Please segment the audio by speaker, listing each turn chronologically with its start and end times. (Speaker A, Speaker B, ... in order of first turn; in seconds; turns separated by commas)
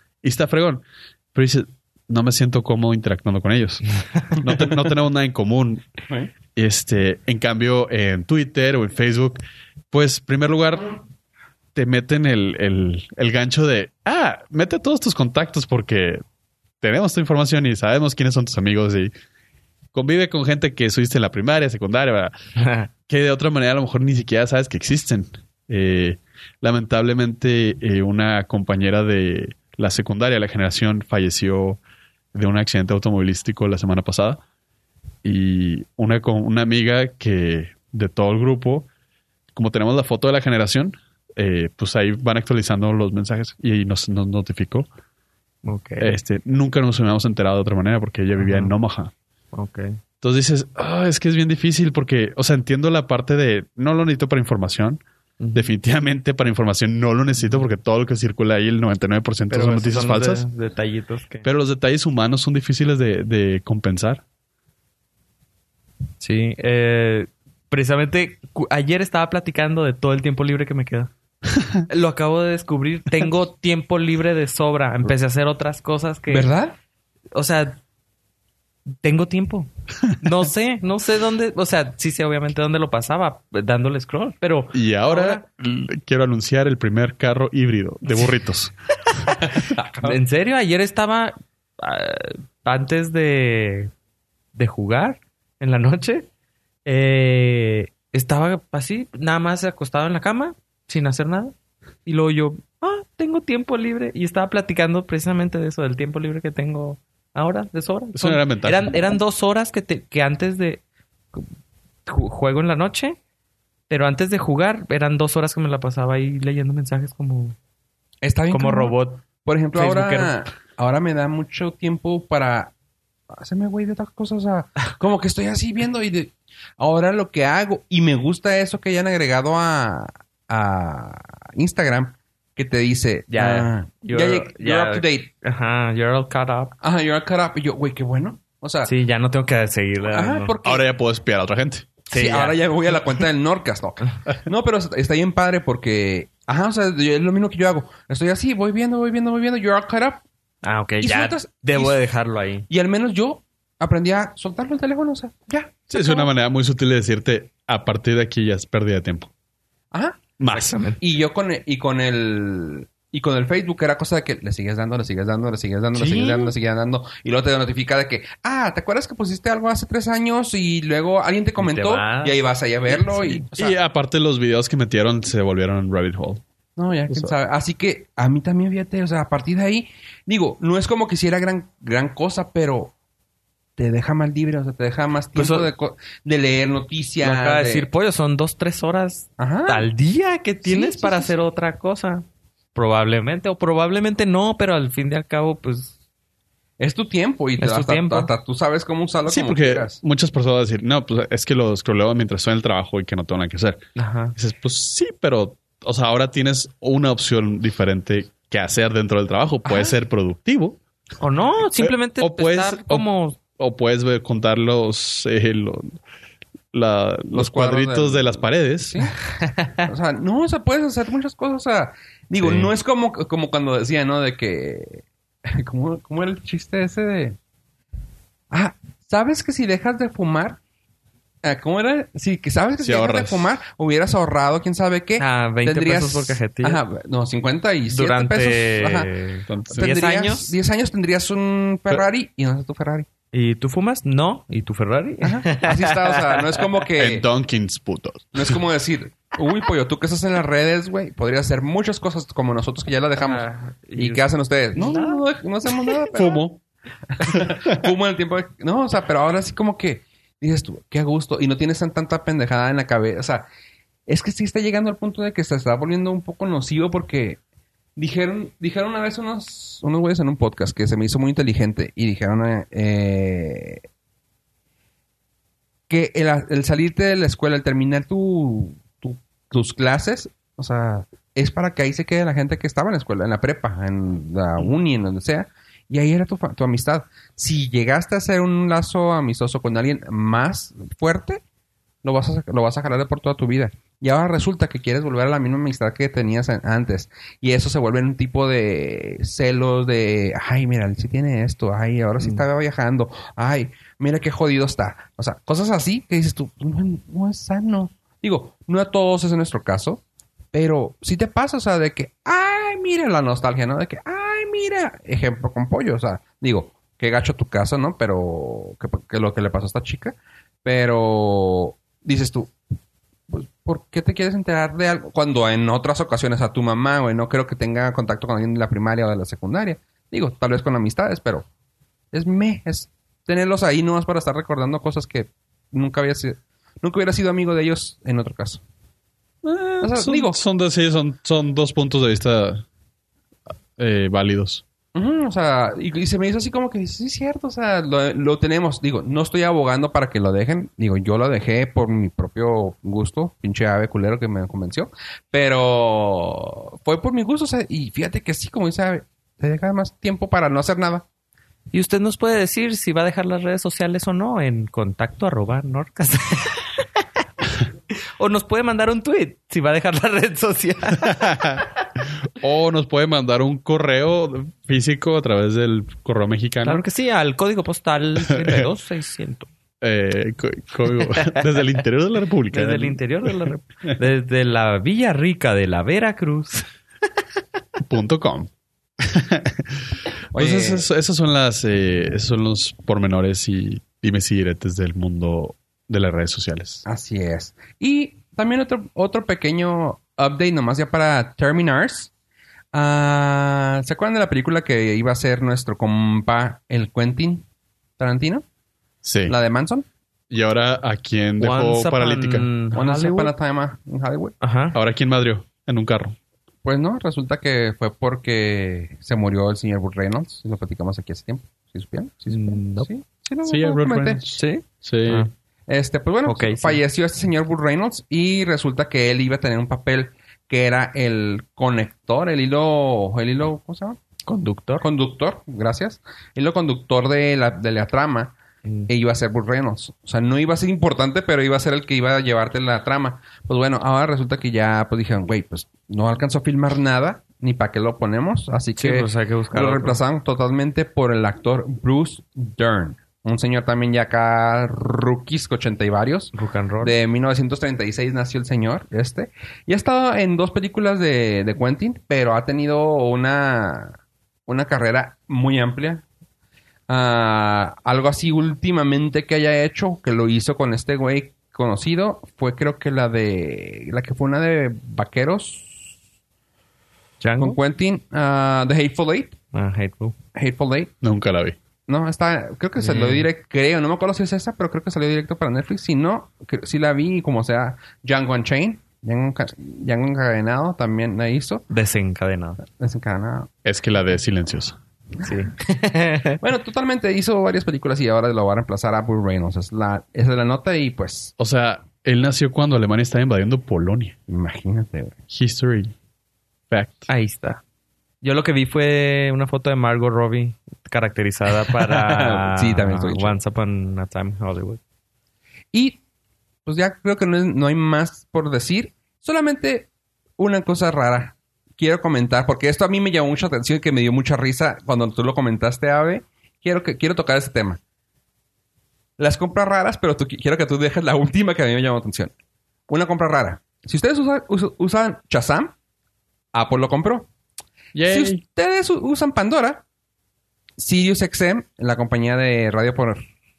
Speaker A: 0.2-5.8, Speaker A: 6.5-10.9, Speaker A: 11.7-16.2, Speaker A: 16.8-19.1, Speaker A: 19.9-22.3, Speaker B: 22.6-22.9, Speaker A: 23.1-31.8, Speaker A: 32.3-34.4, Speaker A: 35.2-38.9, Speaker A: 39.5-44.9, Speaker B: 45.6-46.2, Speaker A: 46.0-49.1, Speaker B: 48.4-48.7, Speaker B: 49.5-50.0, Speaker A: 50.2-55.0, Speaker B: 55.4-55.7, Speaker A: 55.5-60.5, Speaker B: 57.4-57.6, Speaker B: 59.5-61.5, Speaker A: 61.4-64.2, Speaker B: 66.2-71.1, Speaker B: 71.9-76.5, Speaker C: 76.3-76.7, Speaker B: 77.3-77.8, Speaker B: 79.0-85.4, Speaker A: 84.7-88.7, Speaker B: 90.0-93.9, Speaker B: 94.5-96.3, Speaker B: 96.8-101.5, Speaker B: 102.0-110.8, Speaker A: 108.1-109.0, Speaker B: 112.1-113.2, Speaker B: 113.9-117.5, Speaker C: 118.2-122.7, Speaker B: 118.5-120.3, Speaker C: 123.3-135.3, Speaker B: 133.3-136.7, Speaker C: 136.8-138.9, Speaker B: 138.8-140.5, Speaker C: 140.0-140.8, Speaker A: 140.6-141.9, Speaker B: 142.1-142.6, Speaker C: 142.1-150.2, Speaker B: 150.6-152.7, Speaker C: 151.0-152.0, Speaker C: 152.7-156.3, Speaker A: 155.9-159.3, Speaker C: 159.9-160.2, Speaker A: 160.4-160.8, Speaker B: 160.5-161.0, Speaker C: 161.0-173.7, Speaker B: 165.9-166.5, Speaker B: 171.6-172.4, Speaker B: 173.0-173.4, Speaker A: 173.5-176.4, Speaker C: 176.8-182.9, Speaker C: 183.8-187.9, Speaker B: 185.3-185.7, Speaker B: 187.2-195.9, Speaker C: 189.4-189.9, Speaker C: 190.6-191.3, Speaker C: 196.8-200.0, Speaker B: 197.6-198.3, Speaker A: 199.3-203.8, Speaker B: 203.9-204.3, Speaker A: 204.3-210.8, Speaker B: 211.2-213.4, Speaker A: 211.8-215.9, Speaker A: 216.7-219.0, Speaker C: 217.3-219.1, Speaker B: 219.4-219.8, Speaker C: 219.8-227.4, Speaker A: 222.4-222.7, Speaker C: 228.5-230.6, Speaker C: 231.4-239.1, Speaker A: 232.8-233.6, Speaker B: 235.2-236.8, Speaker B: 237.9-240.5, Speaker A: 239.5-239.9, Speaker C: 239.7-243.1, Speaker B: 243.3-246.4, Speaker C: 245.2-247.3, Speaker A: 247.0-248.6, Speaker C: 248.3-256.6, Speaker B: 253.2-255.2, Speaker A: 256.2-256.5, Speaker C: 257.2-263.5, Speaker C: 264.1-267.4, Speaker C: 268.0-273.8, Speaker C: 275.9-291.4, Speaker C: 292.0-310.0, Speaker C: 310.5-322.5, Speaker C: 323.3-331.5, Speaker C: 332.1-338.6, Speaker A: 339.4-342.6, Speaker C: 339.8-340.4, Speaker A: 343.8-344.6, Speaker C: 344.9-361.1, Speaker B: 361.7-367.0, Speaker B: 368.2-371.3, Speaker A: 371.1-371.6, Speaker A: 372.3-376.8, Speaker B: 376.6-379.5, Speaker A: 378.3-378.6, Speaker A: 379.8-383.5, Speaker B: 381.0-381.4, Speaker B: 382.5-386.7, Speaker A: 387.8-396.8, Speaker C: 390.3-390.9, Speaker C: 396.8-402.1, Speaker C: 402.7-407.4, Speaker C: 408.0-408.4, Speaker A: 409.0-409.3, Speaker C: 409.2-409.9, Speaker A: 410.3-412.5, Speaker B: 411.4-413.3, Speaker C: 412.7-414.3, Speaker B: 414.4-414.8, Speaker A: 414.7-416.1, Speaker C: 416.6-424.2, Speaker B: 422.3-422.9, Speaker A: 423.4-425.3, Speaker B: 424.4-425.3, Speaker C: 425.7-434.0, Speaker B: 426.2-426.8, Speaker B: 434.2-434.9, Speaker C: 434.8-438.4, Speaker C: 438.9-466.0, Speaker B: 448.8-450.0, Speaker B: 456.3-456.9, Speaker C: 466.9-475.9, Speaker B: 477.2-477.6, Speaker C: 477.4-479.4, Speaker B: 479.5-480.1, Speaker C: 480.3-480.9, Speaker A: 481.0-481.6, Speaker C: 481.9-491.6, Speaker B: 482.8-483.3, Speaker B: 491.7-492.6, Speaker C: 492.6-493.5, Speaker A: 493.6-494.8, Speaker B: 495.2-496.4, Speaker C: 496.4-501.3, Speaker A: 501.4-504.1, Speaker C: 504.3-505.1, Speaker A: 505.3-505.9, Speaker A: 506.7-507.1, Speaker B: 507.1-507.6, Speaker B: 508.2-514.8, Speaker C: 511.9-513.3, Speaker C: 515.7-516.0, Speaker C: 516.6-527.8, Speaker C: 529.2-532.3, Speaker C: 532.9-535.7, Speaker C: 536.5-537.3, Speaker A: 537.9-538.4, Speaker C: 538.0-539.8, Speaker C: 540.8-543.2